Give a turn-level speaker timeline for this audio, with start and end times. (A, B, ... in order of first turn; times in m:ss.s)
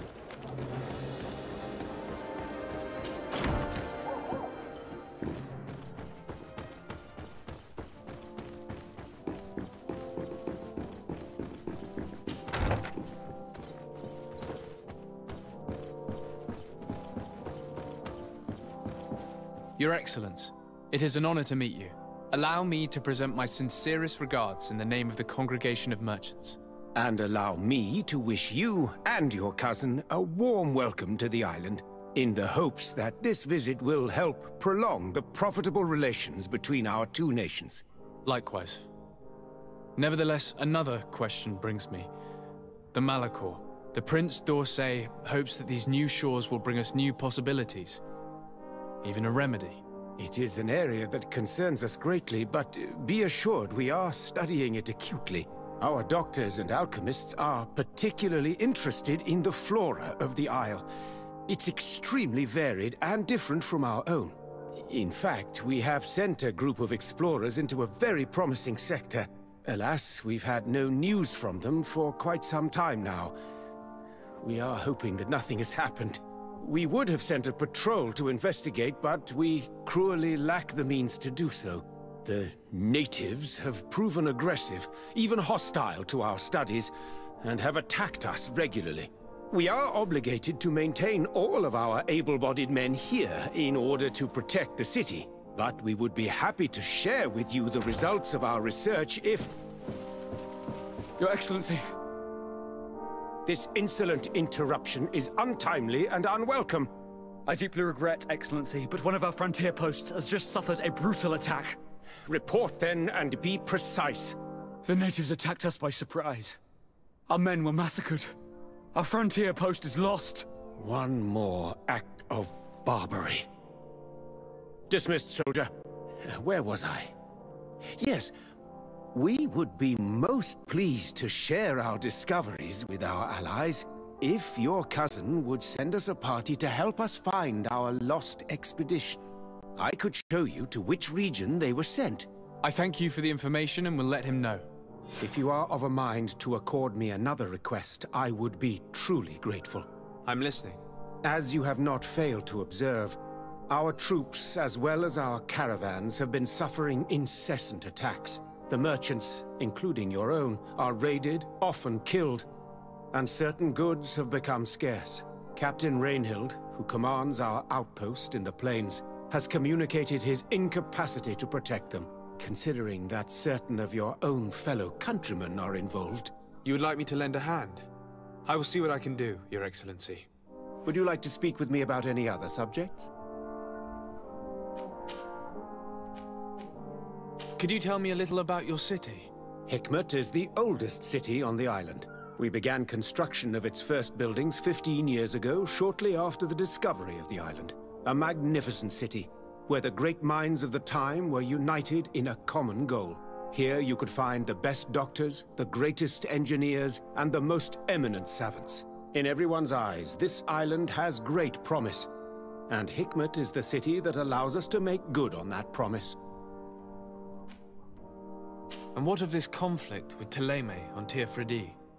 0:19.8-0:26.6 A
0:27.0-0:37.8 B
0:38.3-0:38.8 A
0:40.0-0:42.1 A
0:42.9-0:48.0 A
0:49.0-0:49.8 A
0:50.2-1:00.9 B
1:01.5-1:13.4 B
1:14.4-1:39.6 B
1:41.2-1:41.8 C
1:43.5-1:46.9 B
1:47.5-1:51.7 C
1:52.3-1:54.4 B
1:54.9-1:56.6 C
1:57.3-1:58.3 C
1:59.0-2:00.4 C
2:00.8-2:03.5 B
2:04.9-2:05.7 B
2:06.2-2:07.1 B
2:08.0-2:08.3 B
2:09.1-2:19.2 B
2:19.8-2:22.3 B
2:22.6-2:24.7 A
2:25.2-2:29.9 B
2:30.3-2:30.8 A
2:31.2-2:33.2 B
2:33.7-2:42.5 B
2:43.1-2:56.3 B
2:56.6-2:57.9 A
2:58.4-3:00.3 A
3:00.8-3:03.1 B
3:07.6-3:09.3 A
3:09.7-3:32.1 B
3:32.7-3:36.2 B
3:39.0-3:41.8 A